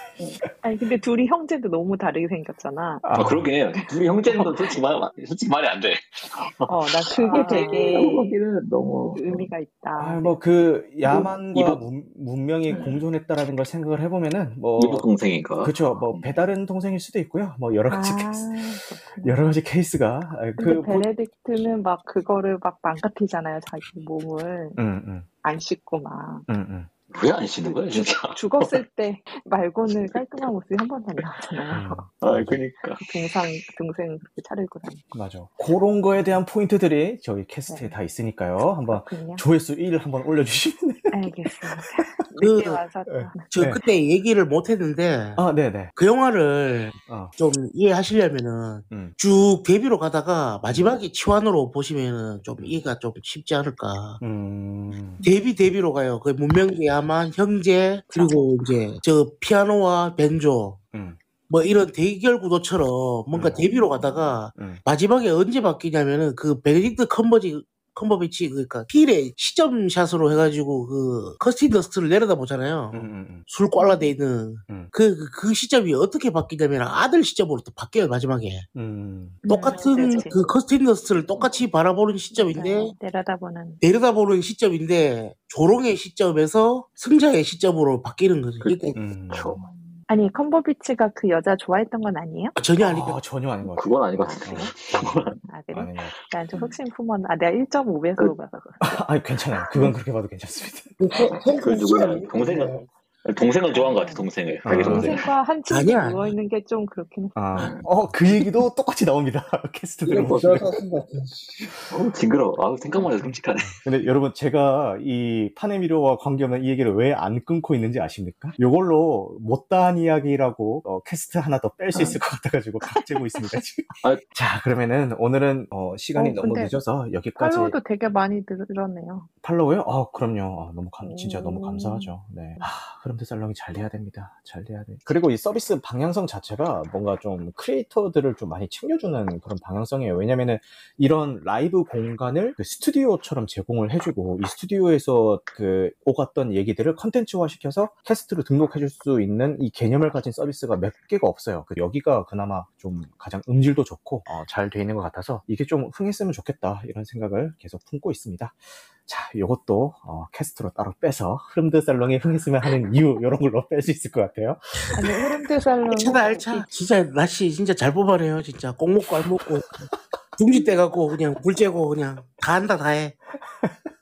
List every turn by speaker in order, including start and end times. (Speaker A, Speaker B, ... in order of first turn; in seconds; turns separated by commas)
Speaker A: 0.6-3.1, Speaker B: 3.0-3.5, Speaker C: 3.1-9.5, Speaker A: 3.7-4.7, Speaker A: 6.6-8.4, Speaker A: 9.1-10.4, Speaker B: 9.9-15.1, Speaker C: 11.1-11.8, Speaker C: 12.7-13.0, Speaker C: 14.8-16.4, Speaker B: 15.6-21.1, Speaker A: 17.9-19.4, Speaker A: 20.6-24.8, Speaker B: 24.8-25.3, Speaker A: 25.4-26.5, Speaker B: 26.5-26.9, Speaker C: 27.1-28.8, Speaker A: 27.6-32.0, Speaker B: 31.7-32.6, Speaker C: 32.2-33.0, Speaker A: 33.0-35.1, Speaker B: 35.1-41.9, Speaker A: 38.8-39.4, Speaker A: 41.1-43.6, Speaker D: 42.4-42.8, Speaker B: 43.0-43.8, Speaker D: 43.5-54.2, Speaker B: 45.4-45.9, Speaker B: 47.0-47.3, Speaker B: 48.9-49.1, Speaker B: 50.7-51.0, Speaker B: 54.2-55.2, Speaker D: 55.2-60.8, Speaker A: 58.1-58.5, Speaker B: 60.9-61.2, Speaker D: 61.5-78.7, Speaker B: 63.3-63.7, Speaker A: 63.9-64.2, Speaker B: 64.5-64.8, Speaker B: 72.9-73.5, Speaker A: 73.8-74.1, Speaker B: 78.7-79.4, Speaker A: 79.4-80.5, Speaker D: 79.5-82.9, Speaker A: 81.3-81.6, Speaker A: 82.3-83.8, Speaker D: 83.8-89.0, Speaker C: 88.6-89.6, Speaker B: 88.9-89.7, Speaker A: 90.1-92.5, Speaker D: 92.5-93.2, Speaker B: 92.8-96.1, Speaker C: 93.7-95.3, Speaker A: 94.2-94.7, Speaker A: 95.4-99.9, Speaker B: 98.8-101.0, Speaker E: 101.0-102.8, Speaker C: 101.2-105.3, Speaker A: 103.7-107.7, Speaker B: 104.6-105.2, Speaker D: 105.7-106.3, Speaker B: 107.3-110.7, Speaker C: 107.6-107.8, Speaker E: 110.0-111.8, Speaker C: 110.2-110.6, Speaker C: 111.9-113.8, Speaker B: 113.1-127.8, Speaker A: 122.8-123.6, Speaker A: 126.2-126.8, Speaker A: 127.4-129.3, Speaker B: 129.4-164.6, Speaker A: 131.0-132.7, Speaker A: 164.9-166.7, Speaker D: 165.9-169.8, Speaker D: 170.4-173.2